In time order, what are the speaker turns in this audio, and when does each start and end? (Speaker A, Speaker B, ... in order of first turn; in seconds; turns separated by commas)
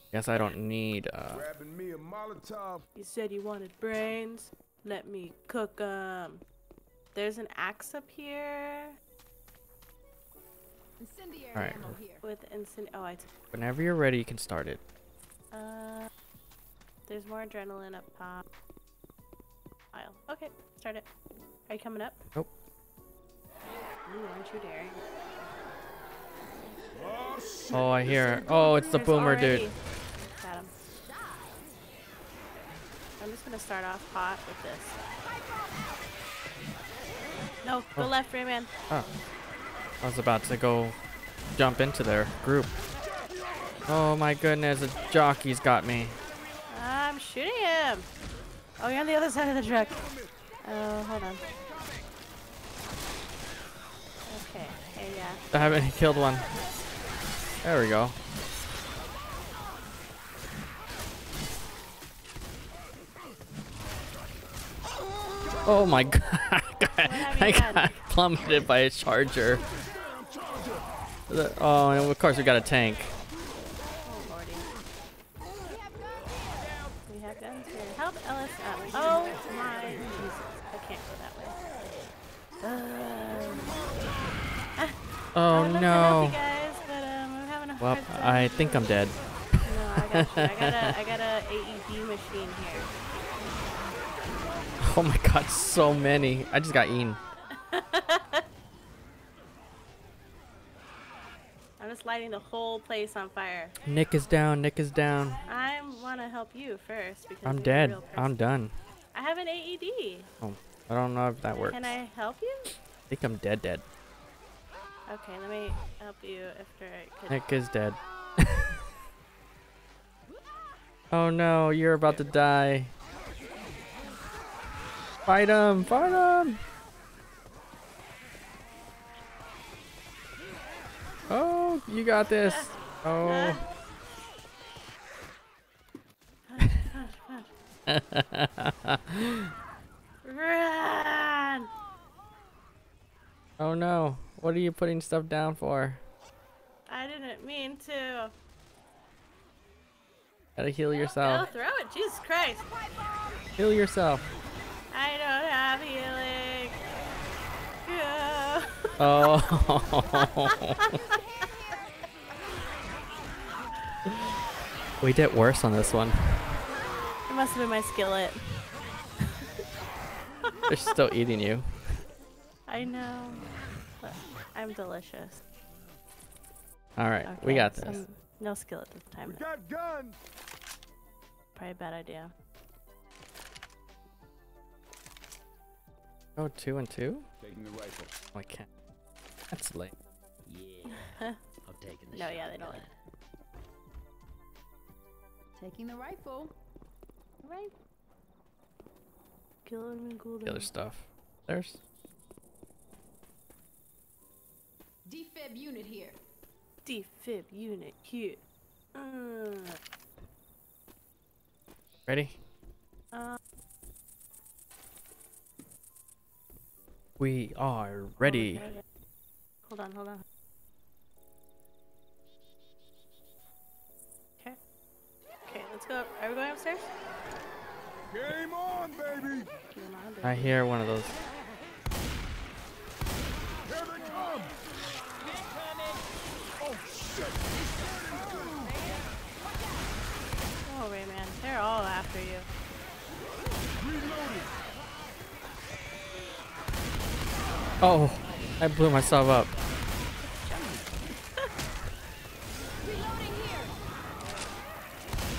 Speaker A: 0.1-1.5, Speaker B: 1.3-2.9, Speaker C: 3.0-6.4, Speaker C: 7.1-8.9, Speaker D: 11.0-12.2, Speaker A: 11.5-12.0, Speaker C: 12.2-13.3, Speaker A: 13.5-14.8, Speaker C: 15.5-16.1, Speaker C: 17.1-18.4, Speaker C: 19.9-21.1, Speaker C: 21.7-22.2, Speaker C: 24.1-25.0, Speaker B: 26.9-29.5, Speaker A: 27.7-29.7, Speaker C: 28.2-29.8, Speaker C: 30.4-30.7, Speaker C: 33.2-35.0, Speaker C: 37.6-38.7, Speaker A: 40.0-41.0, Speaker A: 41.5-42.8, Speaker A: 43.9-46.2, Speaker C: 46.7-48.1, Speaker C: 48.8-50.1, Speaker B: 49.9-50.3, Speaker C: 50.6-51.4, Speaker C: 54.3-55.5, Speaker A: 55.5-56.5, Speaker A: 57.6-58.2, Speaker A: 65.6-69.6, Speaker C: 67.0-68.0, Speaker B: 69.7-70.8, Speaker A: 71.3-73.1, Speaker C: 74.0-74.7, Speaker D: 75.6-76.5, Speaker C: 77.1-81.6, Speaker C: 82.6-83.8, Speaker A: 85.3-86.4, Speaker C: 85.5-88.9, Speaker A: 87.8-89.2, Speaker C: 89.6-92.9, Speaker A: 89.9-90.9, Speaker A: 94.8-97.2, Speaker C: 97.5-98.4, Speaker C: 101.8-103.7, Speaker A: 103.8-105.4, Speaker C: 105.4-108.3, Speaker A: 107.4-108.7, Speaker C: 109.1-110.3, Speaker A: 110.4-111.9, Speaker C: 111.7-112.7, Speaker A: 113.1-113.8, Speaker C: 115.1-117.4, Speaker A: 117.3-118.8, Speaker A: 121.1-122.9, Speaker A: 125.2-126.6, Speaker A: 131.3-133.6, Speaker C: 132.5-133.6, Speaker C: 136.5-137.5, Speaker A: 137.9-139.5, Speaker C: 140.2-141.7, Speaker A: 143.6-146.0, Speaker C: 146.9-148.3, Speaker A: 150.6-151.5, Speaker C: 151.2-152.7, Speaker A: 153.6-154.2, Speaker C: 154.9-156.8, Speaker C: 157.8-159.5, Speaker A: 159.0-161.0, Speaker C: 160.1-161.2, Speaker A: 165.0-166.5, Speaker C: 167.3-168.7, Speaker C: 169.2-169.5, Speaker A: 170.7-172.0, Speaker C: 172.7-175.4, Speaker A: 177.0-178.0, Speaker C: 177.2-179.4, Speaker B: 179.3-180.2, Speaker C: 181.6-182.3, Speaker A: 186.3-187.3, Speaker B: 187.4-188.1, Speaker A: 188.3-188.7, Speaker A: 189.5-189.9, Speaker E: 190.4-192.9, Speaker C: 190.9-191.4, Speaker C: 192.1-192.8, Speaker D: 195.6-196.5, Speaker C: 197.4-197.7, Speaker C: 199.6-200.7, Speaker A: 200.4-201.8, Speaker D: 205.1-206.2, Speaker C: 206.8-208.4, Speaker C: 208.9-209.8, Speaker A: 212.1-212.4, Speaker C: 213.1-213.4, Speaker A: 217.2-218.7, Speaker C: 218.2-218.8, Speaker C: 219.7-220.2, Speaker C: 225.5-226.8, Speaker B: 228.1-229.5, Speaker C: 229.7-230.6, Speaker A: 230.2-231.2, Speaker B: 233.6-234.6, Speaker B: 236.6-238.8, Speaker C: 240.7-242.5, Speaker B: 243.8-244.5, Speaker A: 247.8-249.5, Speaker E: 250.5-250.8, Speaker D: 252.9-253.7